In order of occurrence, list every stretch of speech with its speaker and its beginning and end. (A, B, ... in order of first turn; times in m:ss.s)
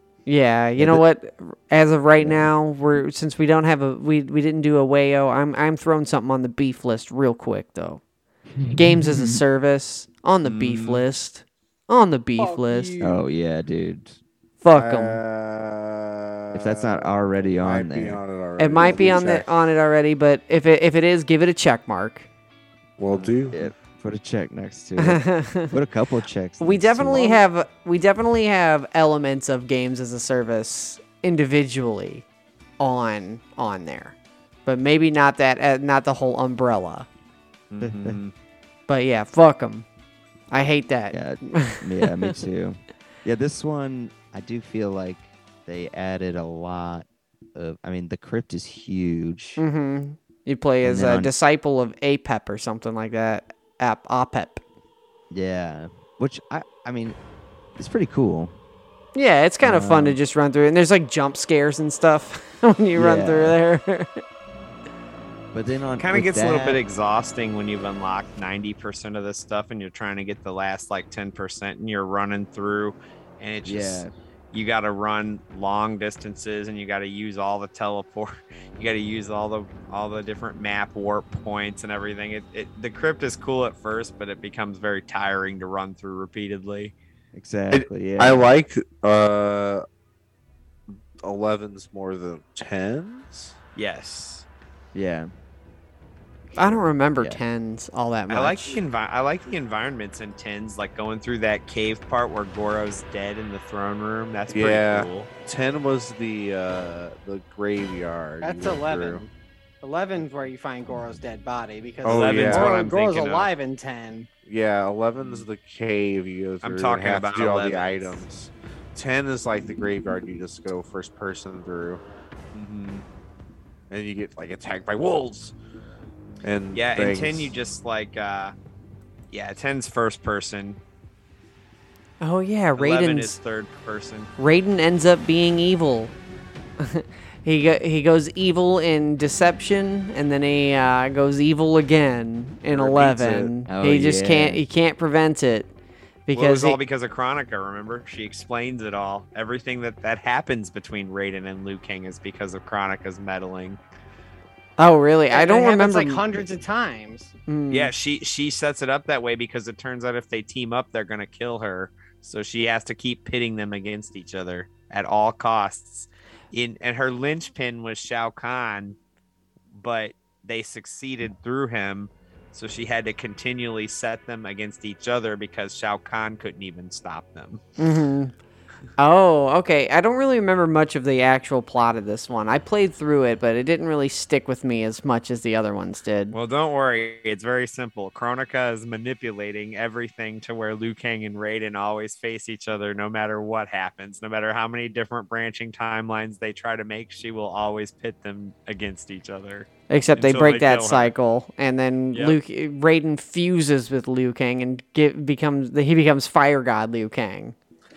0:00.2-0:08.0 A
0:00.8-0:01.0 B
0:02.2-0:02.5 B
0:08.6-0:09.4 B
0:08.7-0:12.9 A
0:10.4-0:11.0 C
0:12.4-0:13.2 D
0:13.0-0:14.2 B
0:14.6-0:15.2 A
0:14.7-0:19.5 E
0:16.5-0:18.2 B
0:18.6-0:22.3 A
0:23.0-0:23.6 E
0:23.5-0:27.4 B
0:25.0-0:25.7 A
0:26.6-0:32.2 A
0:32.8-0:37.1 A
0:37.7-0:38.3 C
0:37.8-0:38.2 B
0:38.9-0:39.8 A
0:40.5-0:42.3 A
0:41.1-0:49.6 B
0:49.6-0:54.6 A
0:50.8-0:51.3 B
0:55.3-0:57.2 B
0:57.8-0:58.5 B
0:59.1-1:04.2 A
0:59.6-1:00.2 B
1:03.0-1:03.6 B
1:05.5-1:06.8 B
1:06.0-1:26.9 C
1:13.6-1:14.1 B
1:27.3-1:28.5 B
1:27.7-1:29.8 E
1:31.2-1:33.5 E
1:33.8-1:34.4 C
1:34.9-1:35.3 B
1:36.5-1:38.8 A
1:36.6-1:37.4 B
1:38.3-1:45.3 C
1:44.5-1:49.2 E
1:48.4-1:49.3 D
1:49.8-1:54.3 D
1:52.0-1:52.7 E
1:52.0-1:53.5 C
1:54.4-2:02.0 E
1:55.2-1:55.5 C
1:56.6-1:58.2 C
2:02.5-2:03.0 C
2:03.9-2:05.5 E
2:06.4-2:07.5 E
2:06.7-2:08.5 C
2:09.3-2:10.8 C
2:12.2-2:13.4 A
2:12.8-2:14.3 C
2:14.4-2:16.1 A
2:16.8-2:25.7 A
2:22.8-2:23.5 C
2:22.8-2:23.1 E
2:23.7-2:24.6 B
2:26.3-2:26.8 A
2:26.3-2:33.8 C
2:34.8-2:36.2 A
2:35.3-2:37.3 D
2:37.5-2:37.9 A
2:37.7-2:49.0 C
2:49.7-2:57.6 C
2:57.8-2:58.3 A
2:59.0-3:06.3 A
3:06.3-3:21.1 C
3:19.9-3:27.5 A
3:22.1-3:22.4 C